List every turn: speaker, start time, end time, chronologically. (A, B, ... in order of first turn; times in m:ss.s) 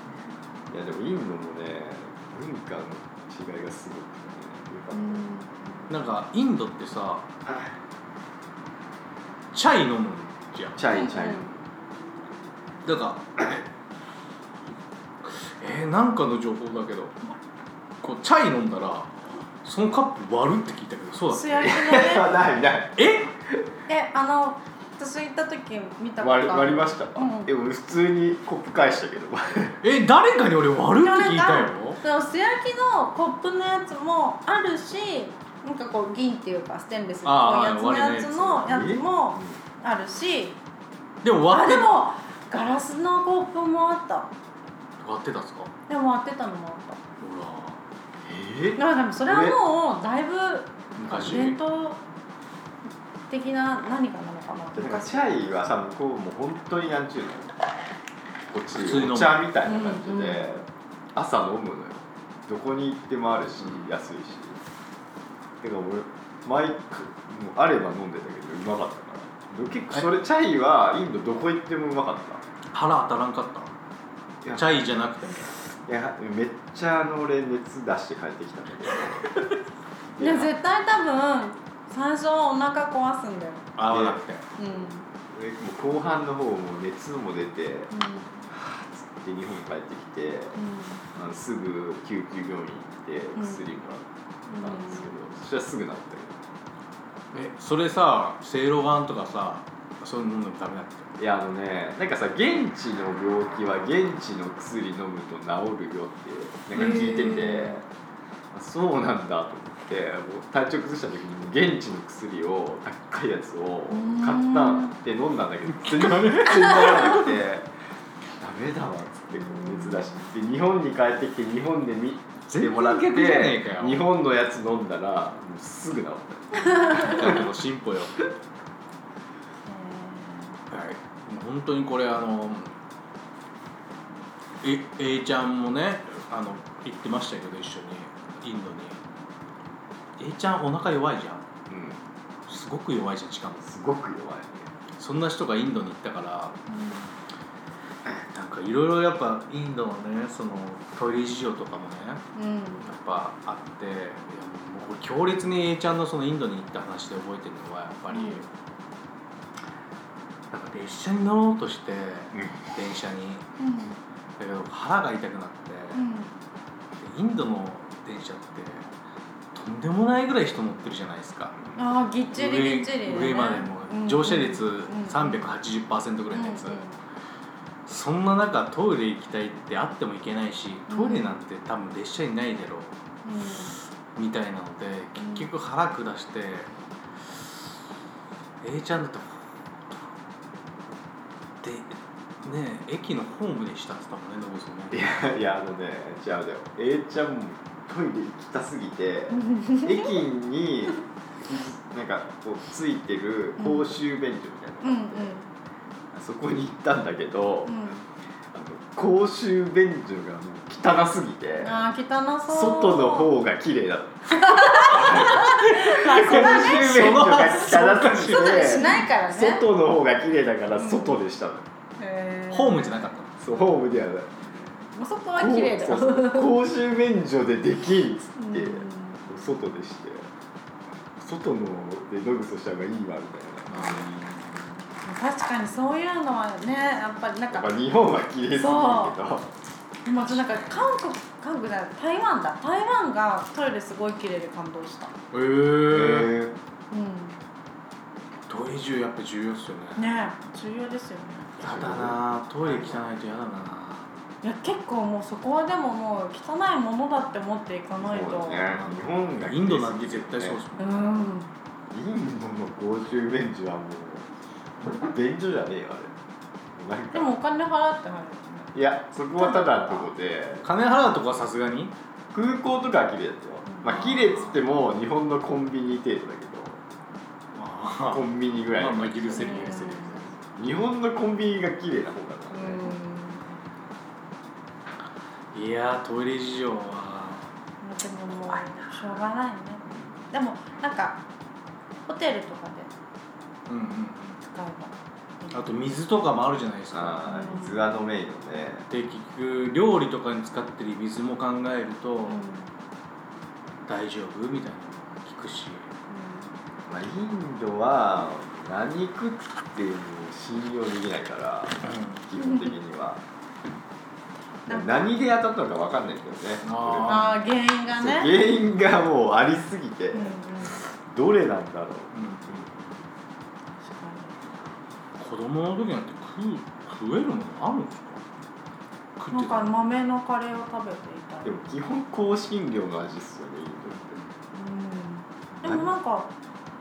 0:00.7-0:05.2 A
0:04.9-0:05.9 B
0:05.9-0:07.3 C
0:07.4-0:07.7 A
0:09.5-0:10.8 C
0:10.8-0:11.6 A
0:10.9-0:11.5 B
0:12.8-0:13.6 C
0:15.2-0:17.3 C
0:18.0-0:21.7 C
0:21.3-0:22.4 B
0:21.6-0:23.6 A
0:23.0-0:23.3 C
0:23.9-0:27.5 B
0:26.2-0:29.8 A
0:29.8-0:32.0 C
0:31.0-0:40.6 B
0:37.2-0:38.7 C
0:38.6-0:39.6 A
0:41.2-0:41.9 C
0:41.5-0:44.3 B
0:45.0-0:45.7 C
0:45.9-0:47.0 B
0:47.2-0:47.8 C
0:48.2-0:49.6 A
0:48.8-0:52.0 B
0:51.0-0:51.6 C
0:53.3-0:55.3 B
0:54.7-0:57.5 A
0:58.5-1:04.6 A
0:58.7-0:59.4 C
0:59.6-1:00.6 B
1:05.6-1:12.4 A
1:12.7-1:13.7 C
1:14.4-1:14.8 A
1:14.5-1:15.5 C
1:15.7-1:19.4 A
1:20.1-1:20.5 A
1:20.2-1:23.7 B
1:23.8-1:24.4 C
1:23.9-1:24.2 A
1:24.6-1:25.0 B
1:25.3-1:27.9 A
1:27.9-1:28.5 B
1:28.5-1:30.6 A
1:30.5-1:31.0 B
1:31.1-1:36.4 A
1:33.4-1:33.6 B
1:34.5-1:35.1 B
1:37.3-1:41.1 C
1:41.2-1:47.8 A
1:46.7-1:47.8 B
1:48.5-1:57.7 A
1:53.9-1:55.0 B
1:55.7-1:57.4 C
1:58.4-2:07.5 A
1:59.3-2:00.3 B
2:02.5-2:04.0 C
2:06.7-2:08.2 C
2:09.6-2:10.6 B
2:10.7-2:12.7 C
2:14.6-2:19.0 C
2:20.2-2:21.4 C
2:21.7-2:22.0 A
2:22.5-2:23.6 C
2:23.6-2:24.7 A
2:25.0-2:26.6 C
2:26.7-2:27.1 B
2:28.0-2:32.2 C
2:32.3-2:32.8 B
2:32.8-2:38.5 C
2:38.1-2:38.4 B
2:40.5-2:43.4 C
2:43.6-2:44.0 B
2:44.4-2:46.0 C
2:45.9-2:46.3 B
2:47.0-2:48.9 C
2:49.5-2:51.6 C
2:51.7-2:55.5 B
2:52.3-2:56.8 C
2:56.3-2:56.9 B
2:57.8-3:03.0 C
3:00.9-3:01.3 B
3:03.2-3:03.7 B
3:04.1-3:06.7 C
3:05.2-3:05.5 B
3:08.6-3:10.0 C
3:11.6-3:15.0 C
3:14.9-3:25.3 A
3:19.3-3:20.1 B
3:23.6-3:23.9 B
3:24.8-3:25.5 B
3:26.1-3:27.8 A
3:27.6-3:28.0 B
3:28.5-3:31.8 A
3:31.6-3:33.3 B
3:32.5-3:41.6 A
3:34.3-3:37.3 B
3:35.1-3:35.5 C
3:36.1-3:39.0 C
3:38.2-3:39.6 B
3:40.8-3:41.2 B
3:42.0-3:43.1 B
3:42.5-3:43.3 C
3:43.4-3:44.4 A
3:44.5-3:46.5 B
3:45.4-3:50.3 A
3:48.4-3:49.4 B
3:51.2-3:54.1 A
3:53.7-3:54.6 C
3:54.9-3:57.7 B
3:57.5-3:59.5 A
3:58.5-3:59.2 B
4:00.0-4:05.1 B
4:05.3-4:06.3 C
4:05.9-4:06.6 A
4:06.9-4:07.4 B
4:08.5-4:10.0 C
4:10.0-4:11.6 B
4:11.6-4:13.0 A
4:11.6-4:14.2 C
4:14.4-4:18.6 B
4:18.0-4:20.6 A
4:18.8-4:21.2 C
4:20.8-4:21.5 B
4:21.9-4:26.1 A
4:26.7-4:27.3 A
4:27.1-4:28.7 B
4:28.7-4:30.6 A
4:29.3-4:30.1 B
4:30.6-4:31.9 C
4:32.3-4:36.8 A
4:33.8-4:34.5 C
4:37.5-4:40.3 C
4:38.1-4:42.8 A
4:39.4-4:40.3 B
4:42.5-4:43.6 B
4:45.5-4:47.5 C
4:47.8-4:51.2 B
4:48.4-4:49.2 C
4:52.1-4:52.9 B
4:53.7-4:54.4 C
4:54.4-4:55.9 B
4:55.5-4:57.4 C
4:56.9-4:58.9 A
4:57.2-4:57.8 B
4:58.9-5:02.4 C
5:02.3-5:02.7 B
5:03.8-5:05.9 C
5:06.1-5:06.5 B
5:06.9-5:13.2 A
5:11.8-5:12.2 C
5:12.4-5:12.7 B
5:14.7-5:15.1 B
5:14.7-5:17.3 A
5:16.6-5:17.4 C
5:17.1-5:18.4 B
5:17.9-5:22.6 A
5:20.1-5:20.8 B
5:22.1-5:22.7 C
5:23.8-5:24.3 B
5:25.2-5:28.2 C
5:29.2-5:29.7 C
5:29.3-5:31.6 B
5:31.4-5:34.2 A
5:34.5-5:36.3 B
5:35.6-5:35.9 A